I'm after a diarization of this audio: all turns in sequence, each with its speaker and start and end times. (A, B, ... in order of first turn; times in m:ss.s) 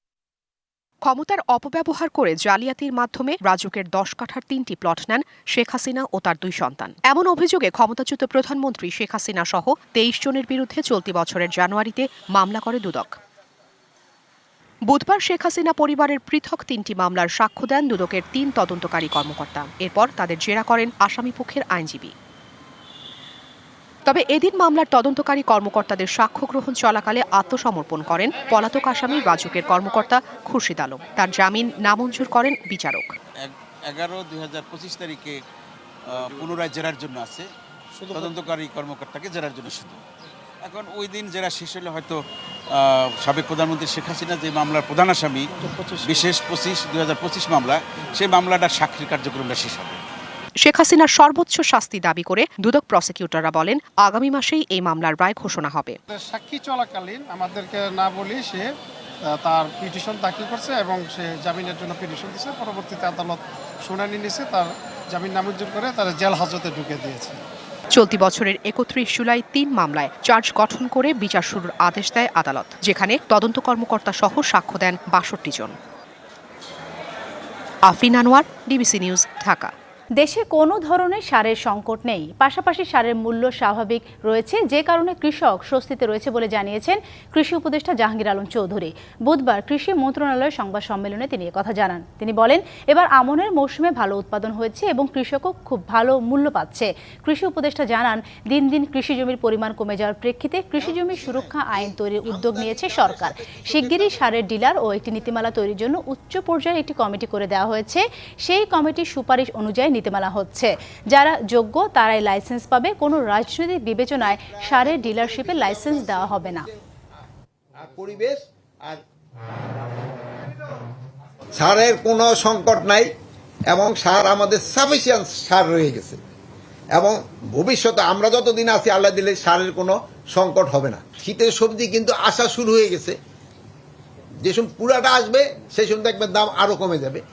0:01.0-0:13.2 A
0:14.9-0:22.1 A
0:24.1-0:33.1 A
0:33.4-0:35.4 B
0:36.1-0:37.5 B
0:38.1-0:40.0 B
0:40.6-0:42.2 B
0:42.8-0:50.0 B
0:50.6-0:56.0 A
0:56.1-0:58.7 C
0:59.3-1:07.4 C
1:07.9-1:15.8 A
1:17.9-1:19.7 A
1:20.2-1:56.7 D
1:57.8-1:59.0 E
2:01.6-2:03.1 E
2:03.7-2:06.2 E
2:06.9-2:13.2 E
2:14.4-2:17.2 E